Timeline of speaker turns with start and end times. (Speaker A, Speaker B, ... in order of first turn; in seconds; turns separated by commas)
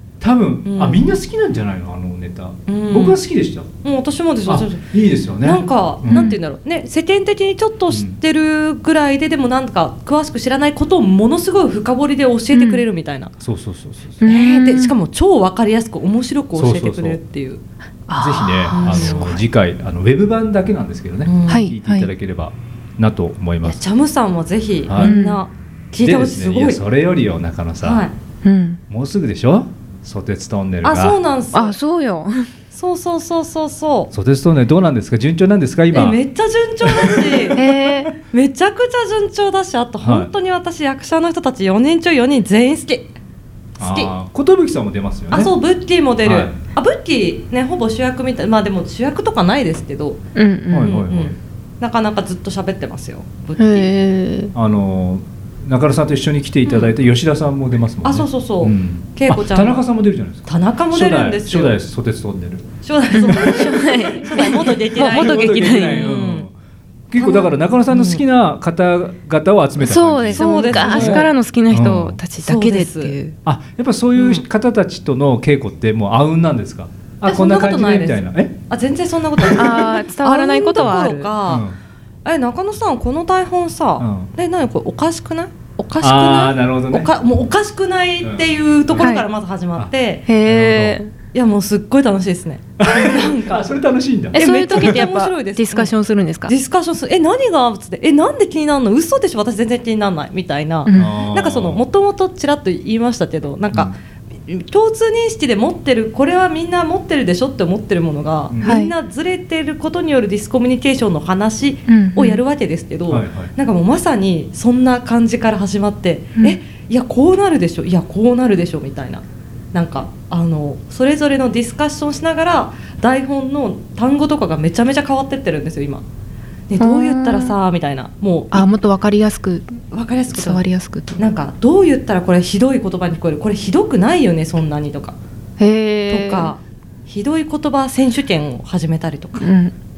Speaker A: 0.2-3.7, Speaker B: 0.7-1.1, Speaker B: 2.7-3.2, Speaker B: 3.8-4.9, Speaker A: 4.5-6.3, Speaker B: 5.4-13.3, Speaker C: 6.1-6.3, Speaker A: 7.9-8.2, Speaker C: 12.5-12.8, Speaker A: 13.4-14.2, Speaker C: 14.2-14.9, Speaker B: 14.2-17.6, Speaker A: 16.5-17.2, Speaker C: 18.1-19.5, Speaker A: 18.2-23.8, Speaker B: 18.7-19.4, Speaker B: 21.3-21.7, Speaker C: 21.4-22.1, Speaker B: 23.6-26.8, Speaker A: 24.9-25.2, Speaker C: 25.0-25.4, Speaker A: 26.0-28.0, Speaker B: 27.8-28.1, Speaker C: 28.4-28.8, Speaker A: 28.9-31.2, Speaker B: 30.8-31.8, Speaker C: 31.5-32.5, Speaker B: 32.7-34.1, Speaker A: 34.1-36.2, Speaker B: 35.9-37.6, Speaker A: 36.8-37.4, Speaker C: 37.5-38.1, Speaker B: 38.3-43.1, Speaker A: 40.0-40.3, Speaker A: 43.8-45.5, Speaker B: 43.8-44.1, Speaker B: 45.3-50.2, Speaker A: 46.2-46.6, Speaker C: 50.4-51.0, Speaker A: 50.7-51.4, Speaker B: 50.8-53.9, Speaker C: 53.6-54.5, Speaker A: 54.5-63.6, Speaker B: 56.7-56.9, Speaker B: 58.0-59.8, Speaker B: 60.5-61.8, Speaker B: 62.8-66.5, Speaker C: 63.1-66.1, Speaker A: 65.0-66.5, Speaker A: 67.1-72.2, Speaker B: 67.2-68.2, Speaker C: 69.8-73.4, Speaker B: 70.3-71.3, Speaker B: 72.4-73.2, Speaker A: 73.5-78.6, Speaker B: 74.2-74.5, Speaker B: 77.2-81.6, Speaker A: 79.4-79.8, Speaker C: 79.5-81.4, Speaker A: 81.5-81.8, Speaker B: 82.2-90.2, Speaker A: 84.0-84.3, Speaker A: 86.0-87.1, Speaker A: 88.2-89.1, Speaker C: 89.0-89.3, Speaker C: 90.3-91.1, Speaker A: 90.4-91.0, Speaker B: 91.3-93.7, Speaker A: 92.8-95.0, Speaker B: 94.3-95.9, Speaker C: 94.3-96.5, Speaker B: 96.5-103.9, Speaker C: 100.9-101.3, Speaker A: 100.9-101.8, Speaker B: 104.5-126.0, Speaker C: 108.6-108.9, Speaker C: 111.9-112.4, Speaker A: 113.1-113.5, Speaker B: 126.7-128.7, Speaker C: 126.8-127.6, Speaker C: 128.5-131.3, Speaker B: 129.9-130.6, Speaker B: 131.2-135.2, Speaker C: 135.6-136.5, Speaker B: 136.1-139.5, Speaker C: 139.4-139.7